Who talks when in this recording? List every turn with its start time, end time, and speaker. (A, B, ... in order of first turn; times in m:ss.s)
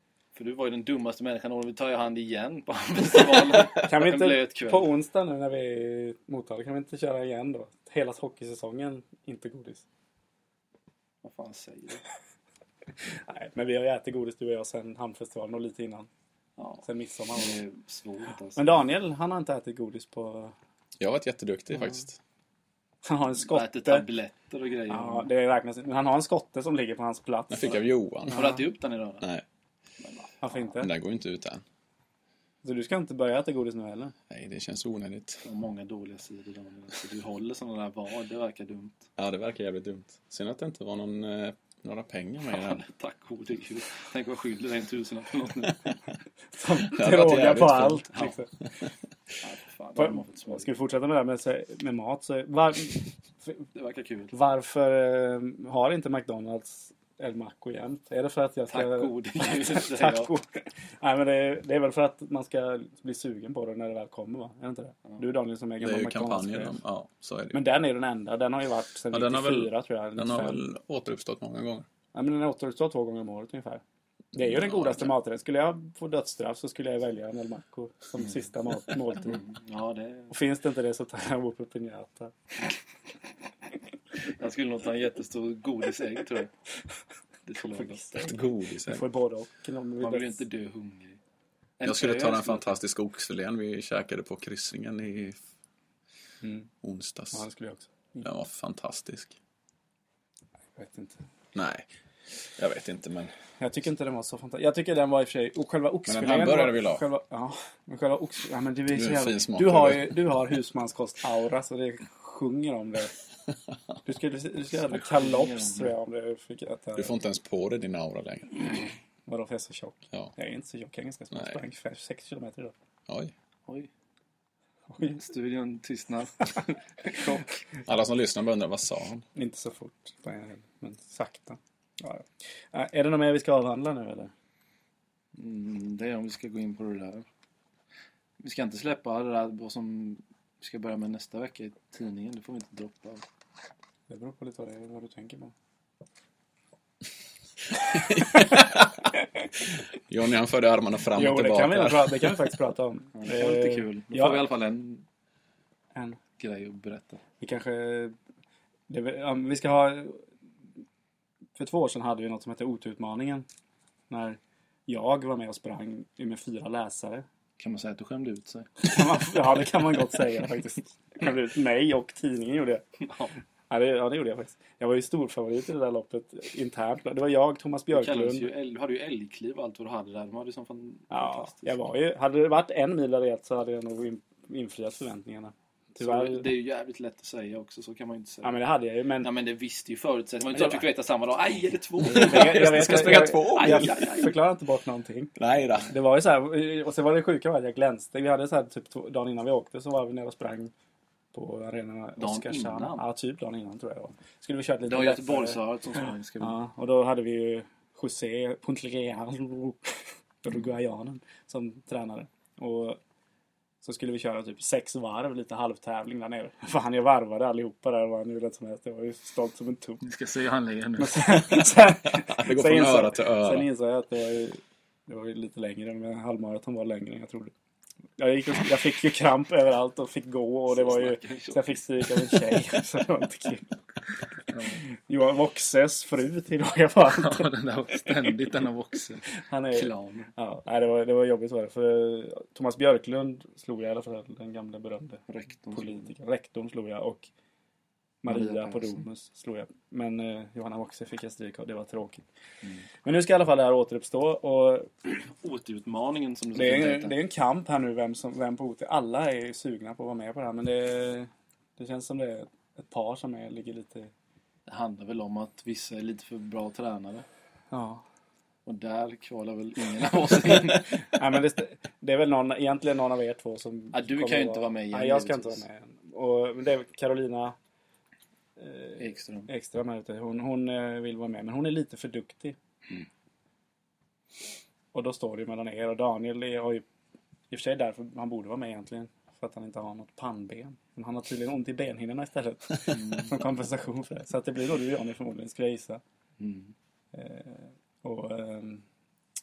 0:00.4-0:04.9 A
0:03.8-0:09.8 B
0:11.2-0:12.0 A
0:13.3-0:16.1 B
0:16.6-0:18.8 A
0:16.8-0:17.6 B
0:18.6-0:20.5 B
0:21.0-0:22.2 C
0:23.0-0:24.0 B
0:23.4-0:25.3 A
0:24.9-0:28.5 B
0:27.5-0:28.5 C
0:28.3-0:29.3 A
0:30.0-0:30.3 A
0:30.4-0:30.9 B
0:30.8-0:31.6 C
0:32.6-0:34.1 B
0:34.3-0:35.4 C
0:35.4-0:39.1 A
0:39.2-0:42.8 C
0:42.5-0:45.9 A
0:46.5-0:48.5 B
0:46.9-0:48.3 C
0:49.4-0:50.7 A
0:50.0-0:53.6 B
0:53.7-0:54.3 A
0:54.3-1:06.8 B
0:58.7-1:00.3 A
1:05.8-1:07.6 C
1:07.5-1:10.6 B
1:09.1-1:11.9 C
1:12.1-1:13.8 B
1:14.3-1:19.4 B
1:14.4-1:15.1 C
1:19.2-1:20.3 A
1:20.3-1:22.3 B
1:24.4-1:26.5 A
1:27.4-1:28.3 A
1:27.7-1:30.4 B
1:28.2-1:29.0 C
1:30.0-1:31.2 A
1:31.8-1:32.8 A
1:31.8-1:35.4 C
1:36.4-1:36.7 B
1:36.8-1:37.4 C
1:37.3-1:38.2 B
1:38.2-1:39.4 C
1:40.8-1:41.2 B
1:41.5-1:41.9 C
1:42.6-1:43.3 C
1:43.6-1:53.1 B
1:46.1-1:47.0 C
1:48.9-1:50.1 C
1:54.0-1:57.1 B
1:54.8-1:55.9 A
1:57.0-1:58.6 C
1:58.6-2:02.7 B
2:03.1-2:03.3 C
2:04.9-2:05.2 B
2:05.1-2:07.5 A
2:07.9-2:09.2 C
2:09.4-2:14.3 B
2:15.4-2:17.2 A
2:18.4-2:23.2 A
2:24.1-2:25.5 B
2:27.9-2:28.9 C
2:28.2-2:28.6 B
2:30.1-2:32.4 C
2:31.1-2:34.4 B
2:33.2-2:35.0 A
2:36.4-2:37.2 A
2:37.4-2:38.1 B
2:38.9-2:40.2 B
2:41.6-2:43.4 B
2:44.1-2:47.2 B
2:47.6-2:48.8 A
2:48.8-2:52.9 B
2:53.0-2:53.3 A
2:53.7-2:58.5 B
2:57.9-3:01.8 A
3:01.1-3:06.5 B
3:06.0-3:08.6 A
3:08.4-3:09.3 B
3:09.2-3:14.3 A
3:10.5-3:10.8 B
3:12.0-3:15.3 B
3:12.0-3:14.3 C
3:15.4-3:15.9 C
3:15.9-3:20.7 B
3:21.3-3:25.6 B
3:22.2-3:23.0 A
3:24.9-3:26.5 A
3:26.4-3:33.0 B
3:33.8-3:40.0 B
3:40.0-3:41.6 A
3:41.0-3:47.5 B
3:42.0-3:43.7 C
3:48.2-3:53.7 B
3:50.7-3:51.8 A
3:54.5-3:54.8 A
3:54.9-3:57.5 B
3:57.1-4:00.3 A
3:59.4-4:07.3 B
4:05.3-4:06.1 A
4:08.2-4:12.2 B
4:08.2-4:09.0 A
4:13.0-4:14.9 B
4:15.1-4:17.2 A
4:16.5-4:24.1 B
4:24.7-4:27.2 A
4:27.7-4:28.0 B
4:28.6-4:30.9 A
4:31.0-4:37.6 B
4:33.9-4:35.6 A
4:38.6-4:42.6 B
4:39.0-4:39.5 A
4:44.9-4:46.8 B
4:47.5-4:56.0 B
4:52.9-4:53.3 A
4:56.4-4:56.7 A
4:57.1-4:58.8 B